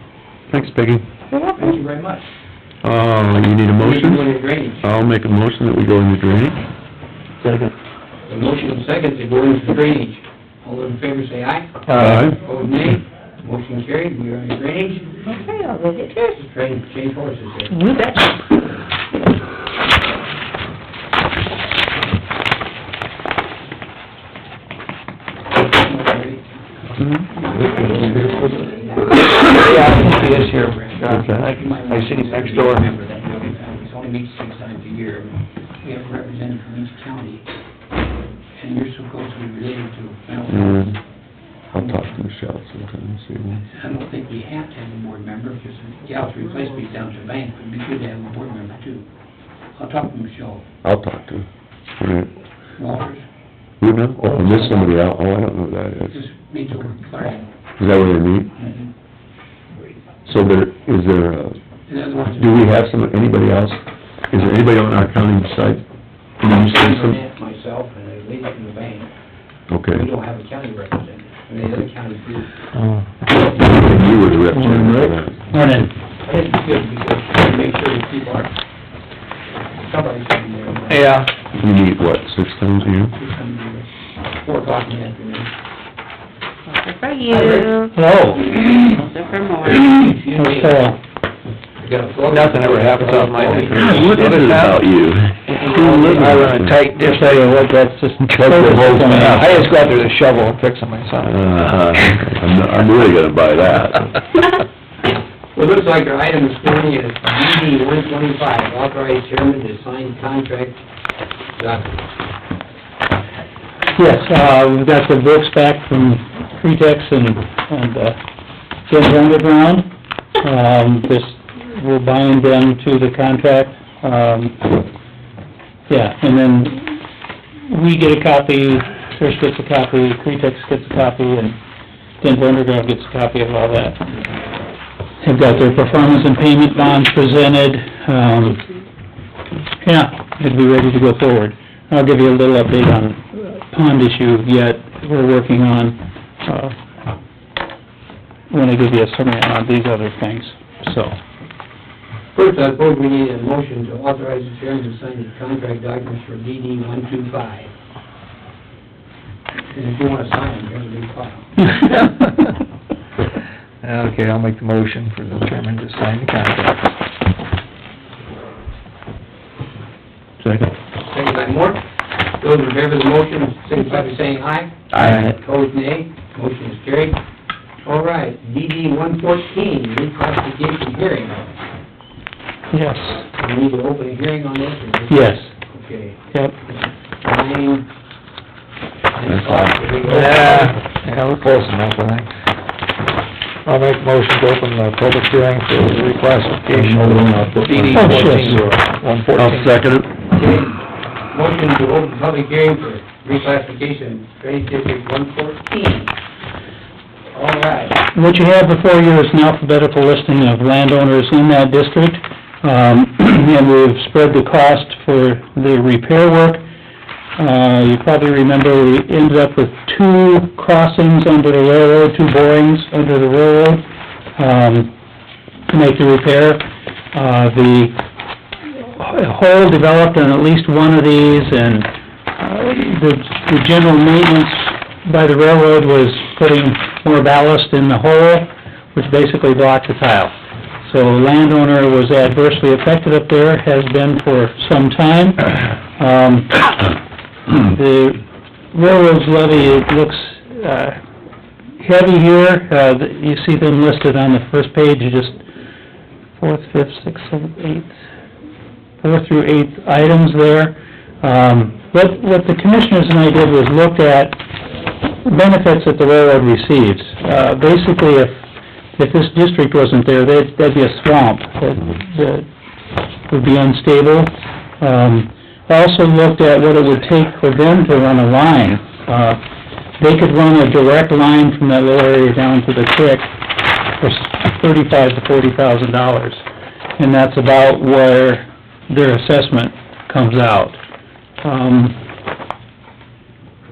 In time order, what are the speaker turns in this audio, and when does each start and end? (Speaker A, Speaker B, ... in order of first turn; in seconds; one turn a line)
Speaker A: 0.5-1.0
Speaker B: 1.3-1.8
Speaker C: 1.6-2.3
Speaker A: 2.8-6.6
Speaker C: 3.8-4.8
Speaker C: 8.3-15.2
Speaker D: 11.9-12.3
Speaker A: 11.9-12.4
Speaker B: 15.3-16.4
Speaker C: 16.3-17.8
Speaker B: 17.7-18.6
Speaker C: 25.5-26.6
Speaker A: 27.0-28.3
Speaker C: 27.4-37.5
Speaker D: 27.6-32.9
Speaker A: 31.1-31.5
Speaker C: 38.6-41.0
Speaker A: 40.5-41.0
Speaker A: 41.7-43.7
Speaker C: 41.8-42.1
Speaker C: 43.7-49.1
Speaker C: 49.8-50.7
Speaker A: 50.8-51.5
Speaker A: 52.0-52.3
Speaker C: 52.8-53.2
Speaker A: 53.8-56.3
Speaker C: 54.4-54.9
Speaker C: 56.1-57.5
Speaker A: 57.8-58.5
Speaker C: 58.6-58.9
Speaker A: 60.3-61.6
Speaker C: 61.9-62.7
Speaker A: 62.3-63.8
Speaker A: 64.3-65.8
Speaker A: 66.4-67.2
Speaker C: 66.6-69.1
Speaker A: 69.7-70.1
Speaker C: 69.9-72.5
Speaker D: 72.8-73.1
Speaker A: 73.5-75.4
Speaker E: 74.5-75.9
Speaker C: 76.2-78.5
Speaker C: 79.8-81.2
Speaker D: 80.9-81.3
Speaker A: 81.5-83.2
Speaker C: 83.2-83.9
Speaker C: 84.4-85.5
Speaker F: 86.7-87.9
Speaker C: 87.3-87.8
Speaker E: 87.9-88.5
Speaker F: 88.5-89.9
Speaker C: 89.5-90.8
Speaker E: 90.3-91.0
Speaker C: 91.8-94.0
Speaker D: 92.3-94.8
Speaker A: 93.7-96.8
Speaker D: 95.6-101.4
Speaker C: 95.6-96.1
Speaker E: 97.0-99.7
Speaker A: 101.2-104.2
Speaker C: 105.0-110.8
Speaker C: 111.5-112.0
Speaker E: 114.0-118.2
Speaker E: 118.9-119.9
Speaker E: 120.4-124.8
Speaker E: 125.9-127.0
Speaker E: 127.7-131.6
Speaker E: 132.2-134.0
Speaker E: 135.2-138.6
Speaker E: 139.8-146.8
Speaker E: 148.5-151.2
Speaker C: 152.3-157.7
Speaker C: 159.7-161.7
Speaker E: 161.8-162.1
Speaker D: 163.8-166.9
Speaker A: 170.4-170.7
Speaker C: 171.1-171.8
Speaker C: 172.4-177.2
Speaker A: 174.9-175.3
Speaker D: 175.0-175.3
Speaker C: 177.8-181.4
Speaker E: 182.7-183.3
Speaker C: 183.4-187.9
Speaker E: 185.1-185.5
Speaker C: 189.2-190.8
Speaker A: 189.3-189.8
Speaker D: 190.0-192.3
Speaker D: 193.7-199.8
Speaker A: 196.7-198.5
Speaker E: 197.9-198.7
Speaker A: 199.4-200.3
Speaker C: 200.3-206.2
Speaker C: 207.3-208.0
Speaker E: 208.1-216.6
Speaker E: 217.4-223.8
Speaker E: 224.4-224.9
Speaker E: 225.7-228.0
Speaker E: 228.7-246.9
Speaker E: 247.6-248.2
Speaker E: 248.7-251.0
Speaker E: 251.8-255.4
Speaker E: 256.4-258.0
Speaker E: 259.0-264.4
Speaker E: 265.2-268.4
Speaker E: 269.0-272.5
Speaker E: 273.3-279.4
Speaker E: 280.0-283.3
Speaker E: 284.0-286.4
Speaker E: 287.0-290.8
Speaker E: 291.4-292.0